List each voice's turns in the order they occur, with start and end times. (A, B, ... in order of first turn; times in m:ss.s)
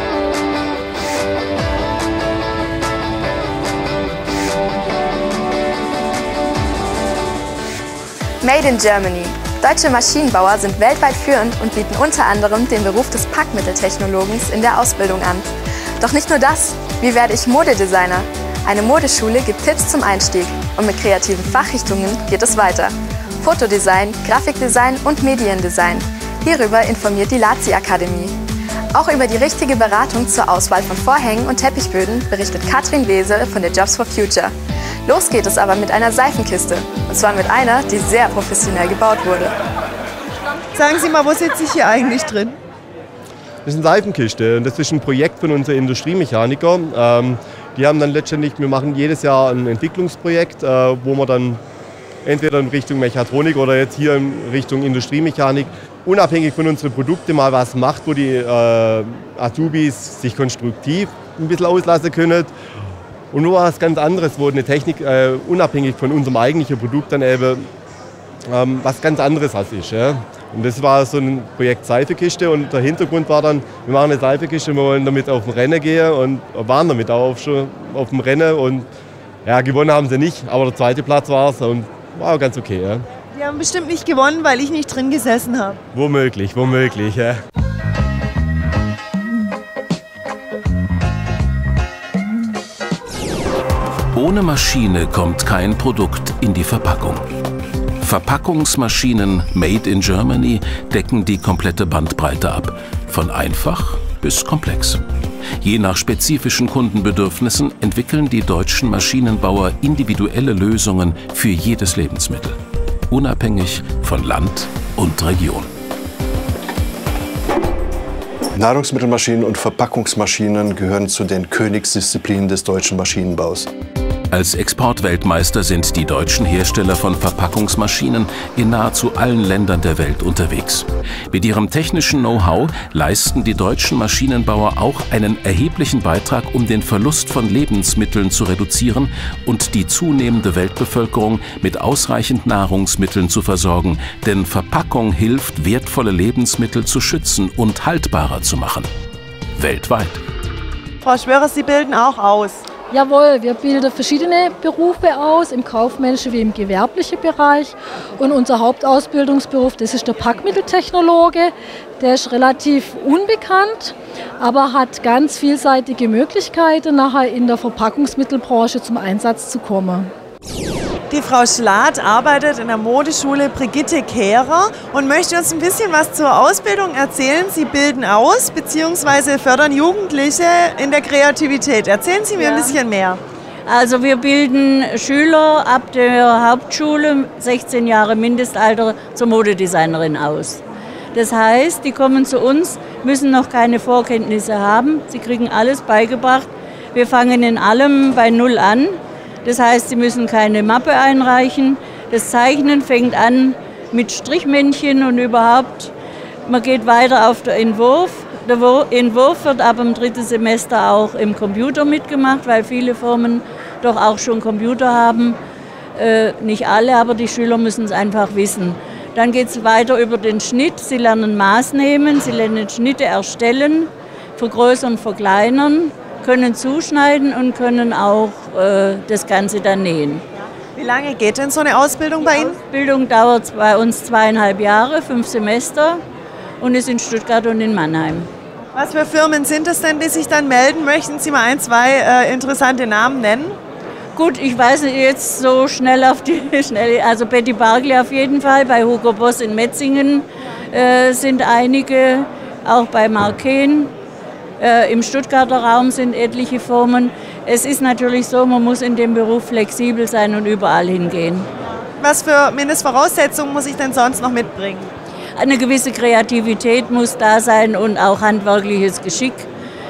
0:08.4-0:15.5 A
0:16.0-0:28.4 A
0:28.9-0:34.5 A
0:35.1-0:39.5 A
0:40.8-0:42.6 B
0:43.6-0:51.6 C
0:52.2-1:02.5 C
1:03.3-1:07.6 C
1:08.5-1:18.9 C
1:19.5-1:23.1 C
1:23.3-1:25.8 B
1:25.9-1:27.4 C
1:34.1-1:37.2 D
1:38.0-1:45.0 D
1:45.6-1:52.6 D
1:53.1-1:55.7 D
1:58.6-2:03.7 E
2:04.3-2:28.9 D
2:29.6-2:30.2 D
2:31.0-2:32.6 B
2:32.9-2:50.1 F
2:51.1-3:03.2 B
3:02.4-3:02.7 G
3:03.7-3:10.6 G
3:11.1-3:25.9 G
3:26.5-3:35.4 G
3:36.0-3:50.2 G
3:50.8-3:52.6 B
3:52.5-3:56.0 G
3:56.6-3:58.3 G
3:58.8-4:03.6 B
4:04.2-4:13.9 G
4:14.6-4:21.5 G
4:22.0-4:24.9 B
4:25.4-4:29.5 G